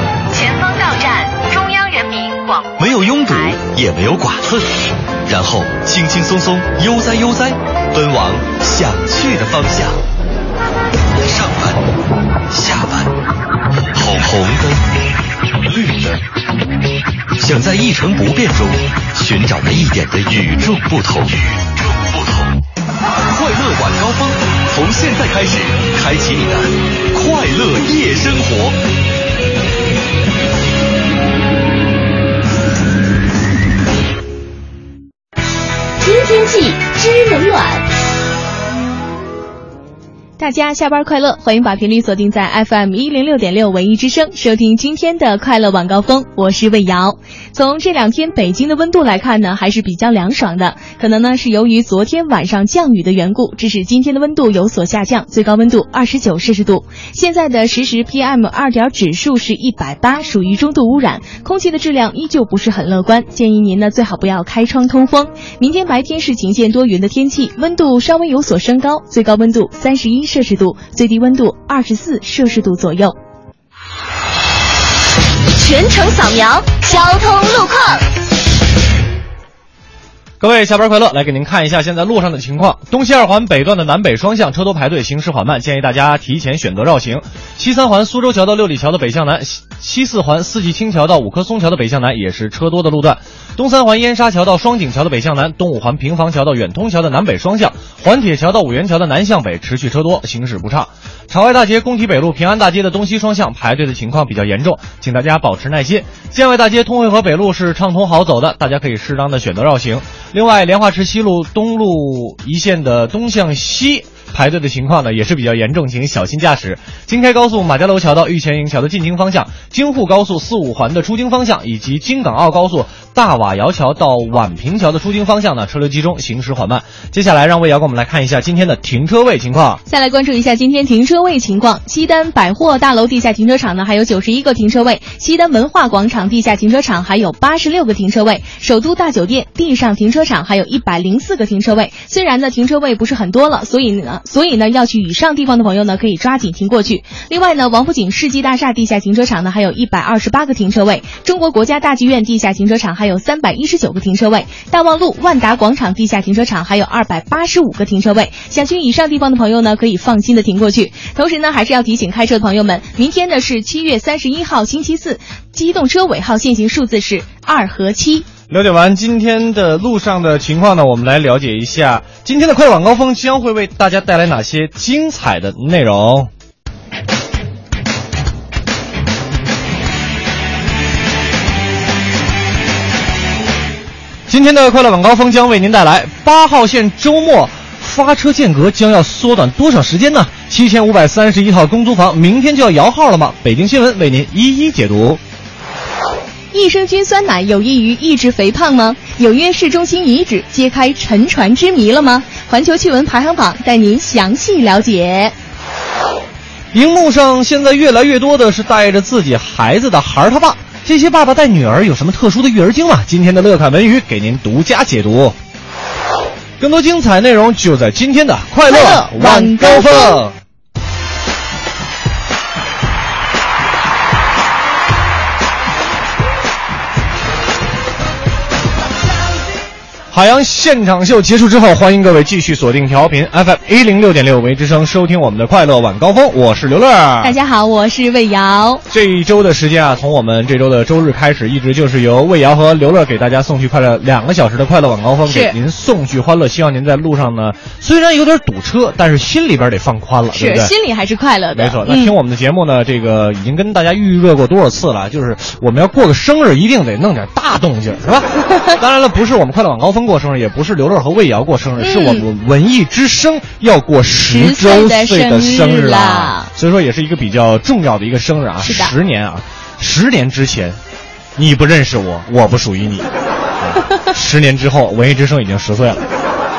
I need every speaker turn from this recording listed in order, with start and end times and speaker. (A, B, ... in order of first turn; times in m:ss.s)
0:00.3-0:02.7 A
0:02.8-0:04.7 B
0:03.3-0:03.6 A
0:05.2-0:10.0 B
0:11.2-0:11.8 B
0:12.5-0:13.1 B
0:13.9-0:14.8 B
0:15.6-0:16.2 B
0:17.4-0:22.6 B
0:23.3-0:28.8 B
0:36.0-0:37.8 C
0:40.4-1:13.2 D
1:15.5-1:18.0 C
1:20.4-2:09.8 E
2:09.9-2:48.3 D
2:48.5-2:56.3 E
3:04.3-3:15.2 E
3:16.5-3:25.3 D
3:26.7-3:35.4 E
3:36.6-3:40.3 E
3:38.7-3:40.2 D
3:50.1-3:57.3 E
3:57.2-3:58.8 D
3:58.9-4:10.7 E
4:05.3-4:05.5 D
4:10.3-4:12.1 D
4:11.5-4:30.8 E
4:21.8-4:22.2 D
4:24.3-4:26.5 D
4:28.6-4:28.9 D
4:31.4-4:33.1 E
4:33.6-4:36.0 E